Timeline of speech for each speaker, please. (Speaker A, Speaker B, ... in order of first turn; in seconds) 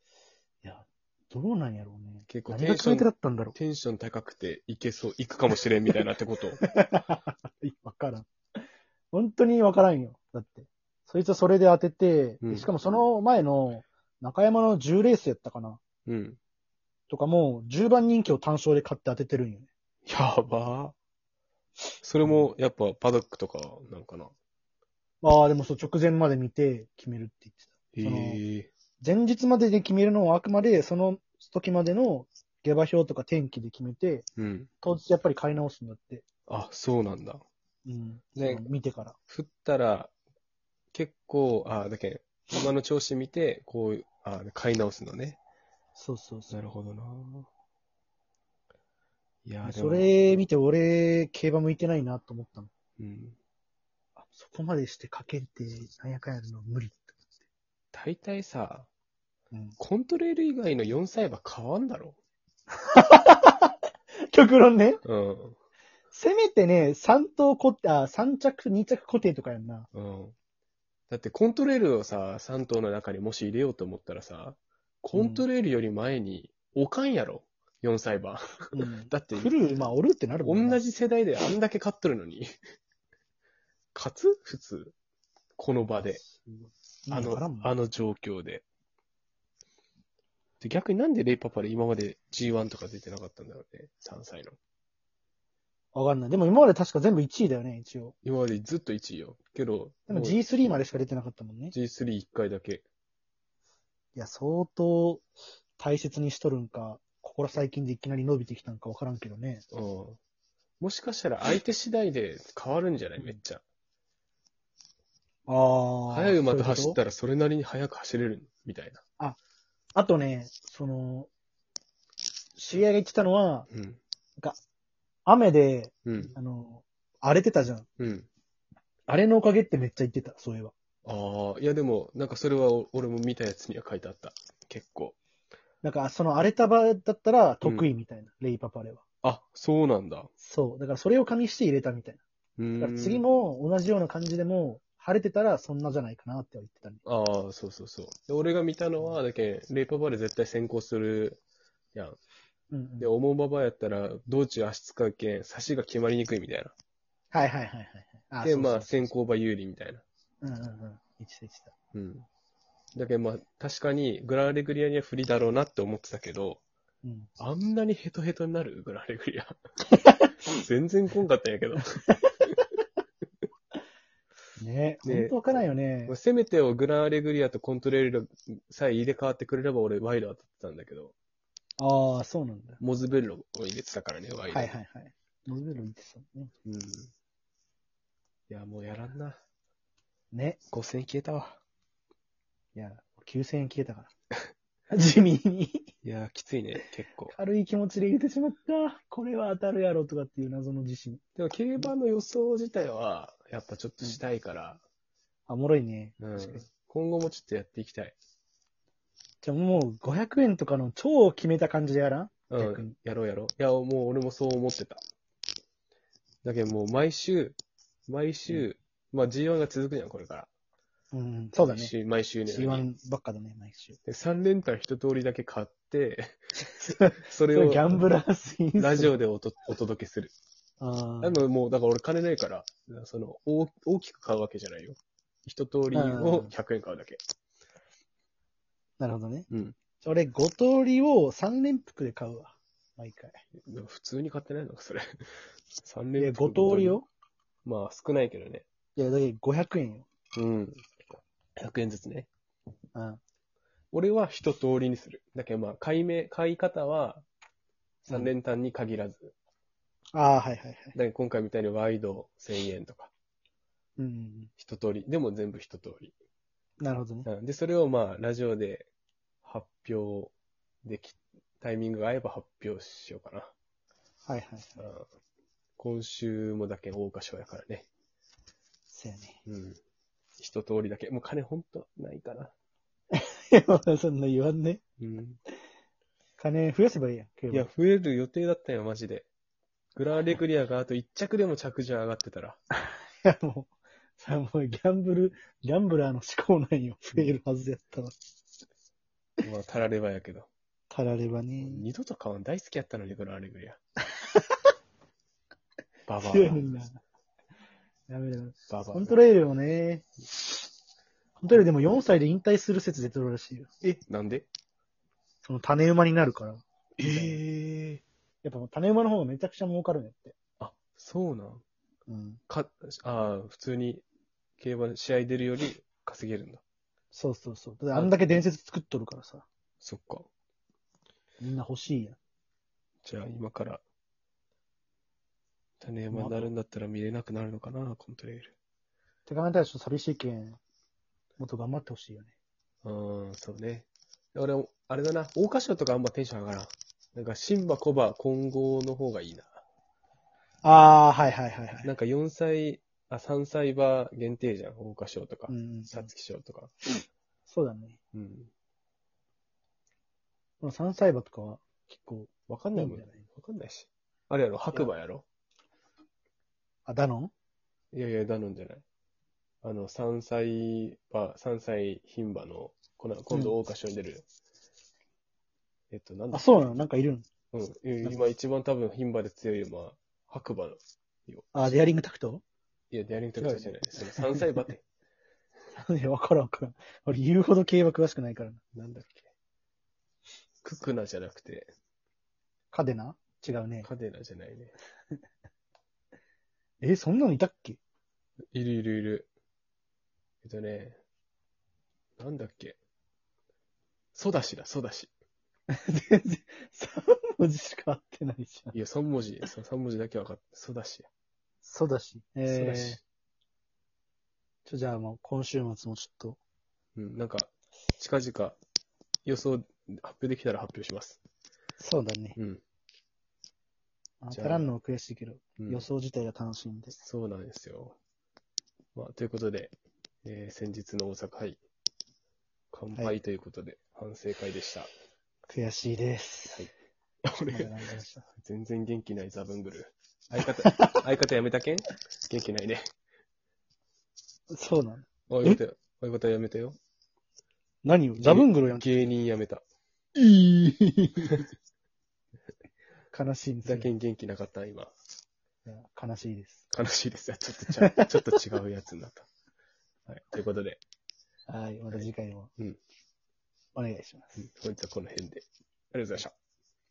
Speaker A: 0.6-3.5, 6.6-8.3, 9.1-15.8, 17.1-19.7, 25.2-28.4, 29.0-34.3, 34.8-36.2, 37.9-39.1, 46.0-46.6, 49.6-52.7, 54.2-57.2, 59.5-59.8, 62.9-63.7, 64.3-65.0, 66.1-69.9, 75.1-75.5, 78.7-80.8, 86.2-87.7, 95.9-98.1, 100.1-101.7, 104.1-105.2, 105.8-109.6, 115.5-117.0, 119.9-121.3, 122.6-123.7, 125.2-127.9, 129.1-130.7, 135.8-139.0, 140.4-142.2, 142.8-147.0, 152.7-153.1, 157.3-159.1, 160.4-161.7, 167.0-167.3, 174.6-176.1, 181.8-182.8, 184.5-186.5, 190.3-190.6, 192.7-194.1, 194.9-195.9, 197.3-201.2, 205.5-206.6, 209.4-212.9, 221.1-221.9, 222.5-224.0, 226.8-229.1, 230.8-231.4, 235.9-236.5, 239.0-239.5, 240.0-243.4, 246.2-247.1, 248.9-250.1, 252.9-253.2, 258.1-258.3, 260.1-260.9, 264.0-264.5, 266.8-267.3, 274.3-274.9, 278.9-279.4, 283.1-284.8, 286.4-287.7, 292.8-298.1, 300.9-301.9, 306.2-306.9, 308.1-310.6, 311.4-314.0, 315.4-317.4, 318.4-320.4, 322.1-322.4, 327.1-329.4, 331.4-332.2, 336.1-336.5, 339.3-340.6, 341.4-342.3, 350.6-351.9, 355.5-356.1, 357.5-358.0, 360.6-363.2, 366.9-367.3, 376.3-377.3, 381.5-382.4, 383.4-384.4, 385.7-388.6, 392.7-393.9, 396.8-397.8, 405.7-408.8, 411.6-413.0, 414.6-416.4, 421.8-422.4, 424.2-427.0, 435.5-436.7, 437.5-438.2, 440.6-440.9, 444.5-445.6, 447.8-449.1, 450.1-451.4, 453.1-453.9, 455.6-456.6, 457.8-458.2, 461.5-462.5, 463.7-464.4
Speaker B: 2.3-6.6, 12.4-12.7, 16.1-16.4, 20.1-20.9, 22.0-24.3, 27.9-28.7, 34.4-34.7, 36.5-37.4, 38.3-38.7, 39.3-40.1, 40.9-45.4, 46.5-47.5, 49.5-50.5, 53.0-53.4, 57.9-58.9, 59.8-62.2, 65.0-65.6, 69.9-70.3, 71.1-79.5, 80.4-82.5, 83.9-84.9, 85.6-86.2, 87.1-88.6, 90.6-94.6, 98.2-100.4, 101.7-102.8, 109.7-110.2, 110.8-113.6, 116.1-119.0, 123.7-124.0, 126.0-126.3, 128.0-128.3, 131.0-135.1, 139.2-140.3, 142.6-143.2, 147.0-151.4, 153.0-156.7, 158.4-160.0, 161.9-162.2, 162.9-166.6, 167.4-169.6, 170.5-172.1, 175.0-181.1, 182.8-184.7, 186.6-187.1, 188.5-189.4, 190.7-191.6, 196.0-197.3, 201.3-204.8, 206.2-208.2, 212.5-215.0, 216.4-220.5, 221.6-222.8, 224.0-226.4, 227.2-228.1, 228.8-230.3, 231.2-237.2, 239.5-239.8, 243.6-245.2, 245.8-247.0, 247.6-248.7, 250.3-252.3, 253.9-257.2, 258.1-259.3, 260.9-263.1, 264.6-266.1, 267.2-268.9, 269.4-270.3, 270.8-273.5, 274.8-275.1, 275.8-277.9, 279.4-279.8, 280.4-282.5, 285.0-285.4, 287.5-289.3, 289.9-292.6, 299.4-300.5, 301.6-303.8, 306.1-306.7, 308.7-309.2, 314.0-314.5, 317.0-318.0, 320.6-321.6, 322.5-324.0, 324.6-326.6, 329.8-330.3, 333.0-333.8, 335.8-338.6, 342.8-349.6, 351.8-356.7, 358.1-358.5, 362.5-365.2, 367.9-368.8, 369.6-374.2, 375.9-376.7, 377.5-381.7, 382.9-384.8, 388.7-389.3, 390.6-391.7, 393.8-394.7, 398.5-399.3, 400.4-401.0, 402.2-402.8, 404.1-405.1, 408.7-411.1, 412.5-413.0, 416.9-418.6, 419.2-421.2, 424.3-424.6, 425.6-425.9, 427.0-427.9, 428.9-429.7, 430.2-431.6, 432.7-434.9, 437.2-437.7, 438.4-442.9, 445.3-446.8, 448.2-449.6, 453.6-454.9, 456.7-459.3, 460.1-460.8, 461.9-462.8, 464.4-466.3